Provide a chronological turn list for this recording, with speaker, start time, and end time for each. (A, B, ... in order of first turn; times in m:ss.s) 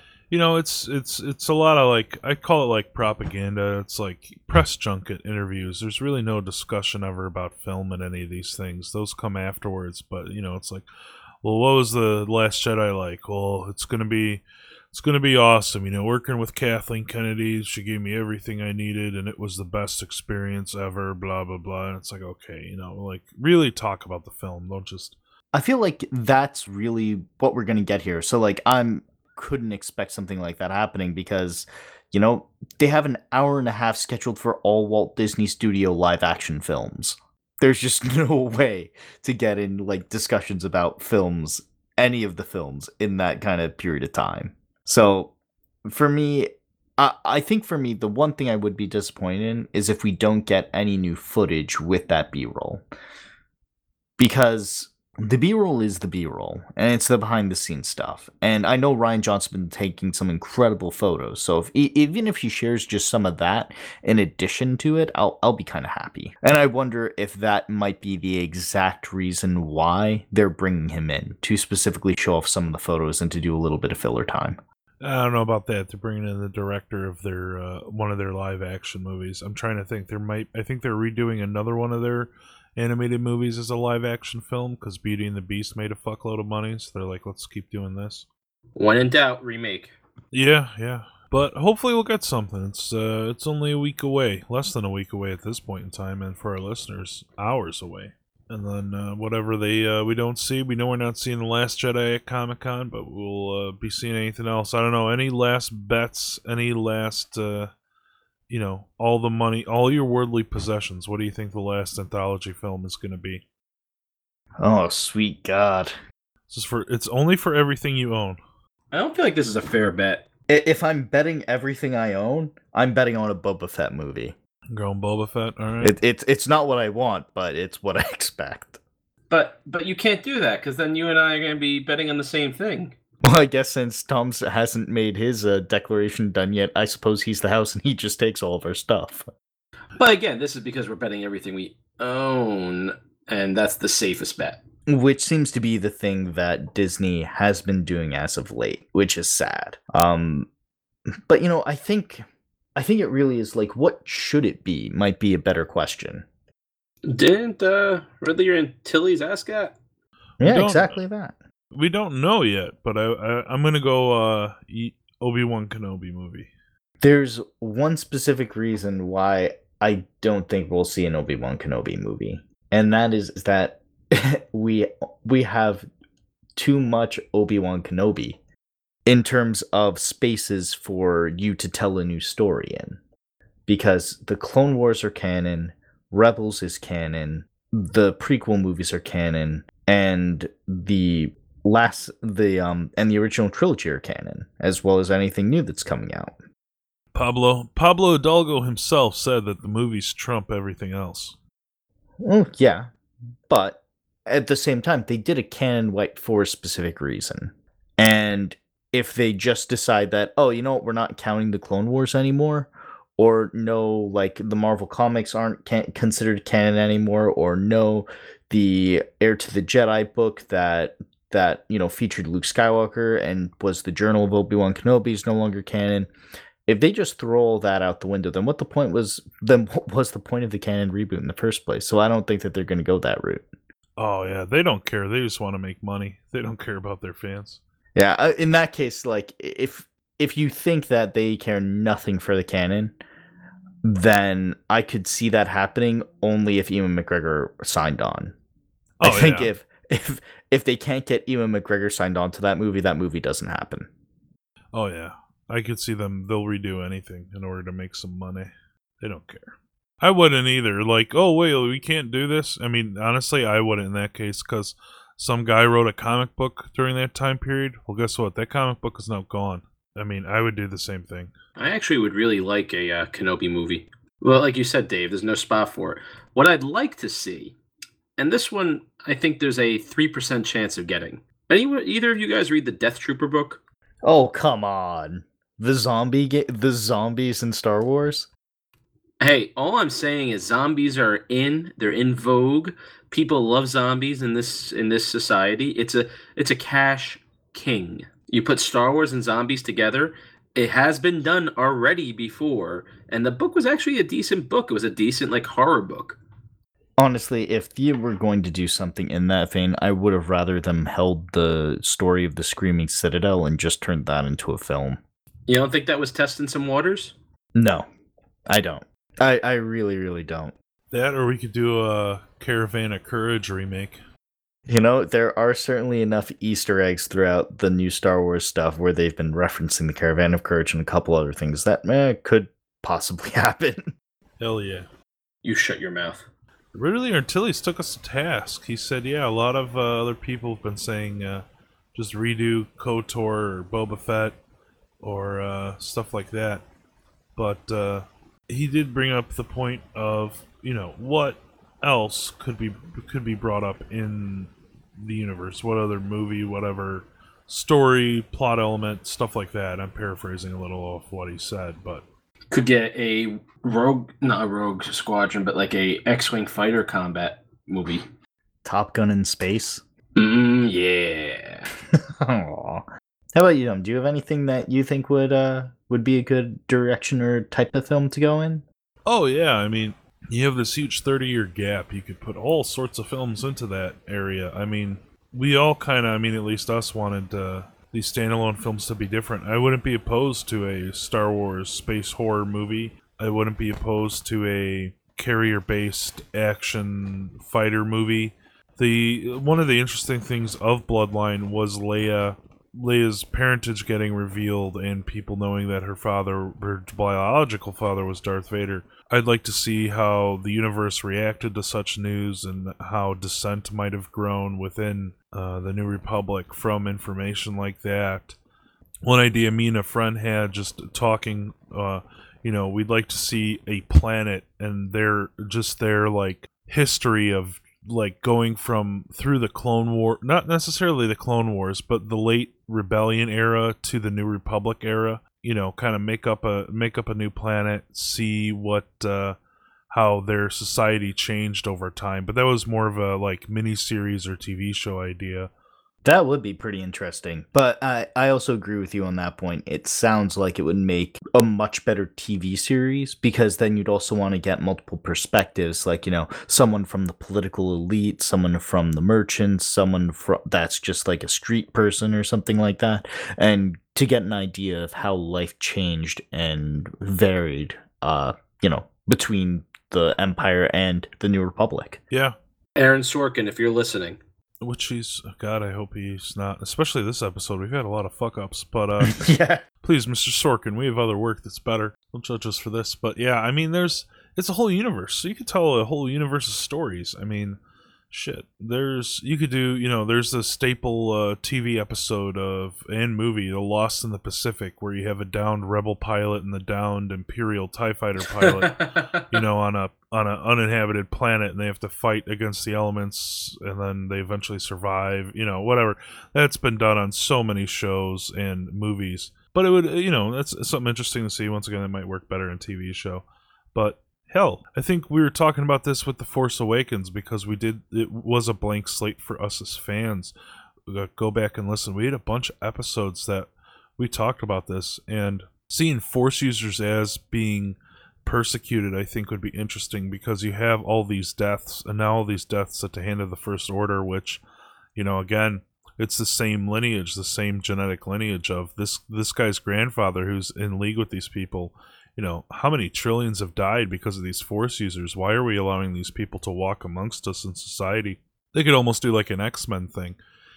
0:00.3-0:10.8 A
0:11.4-0:25.2 A
0:25.5-0:45.3 B
0:45.8-0:52.8 B
0:54.2-1:14.6 B
1:15.0-1:28.2 A
1:28.8-1:29.9 C
1:30.3-1:47.7 A
1:48.5-1:53.4 A
1:54.6-1:55.9 B
1:56.5-1:58.4 A
1:58.9-2:00.2 C
2:00.5-2:04.3 B
2:04.7-2:06.0 A
2:05.8-2:08.8 B
2:09.3-2:12.9 C
2:13.2-2:19.3 B
2:20.0-2:24.6 C
2:24.9-2:30.5 B
2:31.3-2:36.2 B
2:37.0-2:39.7 C
2:40.4-2:41.0 A
2:40.4-2:41.4 B
2:41.7-2:46.5 A
2:47.0-2:55.9 B
2:56.6-2:58.4 B
2:59.0-3:03.0 B
3:03.7-3:16.3 B
3:17.1-3:21.4 A
3:22.2-3:22.9 B
3:23.5-3:46.1 B
3:46.7-3:53.4 B
3:54.0-3:57.6 A
3:57.9-4:03.0 B
4:03.8-4:08.3 B
4:09.0-4:09.5 A
4:09.0-4:13.9 B
4:14.7-4:31.3 A
4:31.6-4:37.6 C
4:38.2-4:43.6 C
4:44.0-4:48.3 B
4:49.2-5:06.2 C
5:07.0-5:15.0 B
5:15.5-5:17.2 C
5:17.5-5:17.8 B
5:18.5-5:20.5 B
5:20.9-5:24.0 A
5:24.7-5:33.9 B
5:34.4-5:34.9 A
5:35.4-5:36.2 C
5:36.7-5:44.4 A
5:45.0-5:46.6 A
5:47.4-6:02.0 A
6:02.5-6:08.1 C
6:08.6-6:09.8 B
6:10.2-6:11.7 C
6:11.9-6:18.6 B
6:19.0-6:58.4 A
6:59.0-7:19.4 A
7:19.9-7:25.5 A
7:26.0-7:52.0 B
7:52.1-7:52.4 A
7:52.8-7:54.2 C
7:54.6-7:59.3 A
7:59.0-7:59.6 B
7:59.8-8:07.6 A
8:08.1-8:40.3 A
8:18.4-8:19.2 C
8:40.9-8:54.4 A
8:55.0-9:10.2 A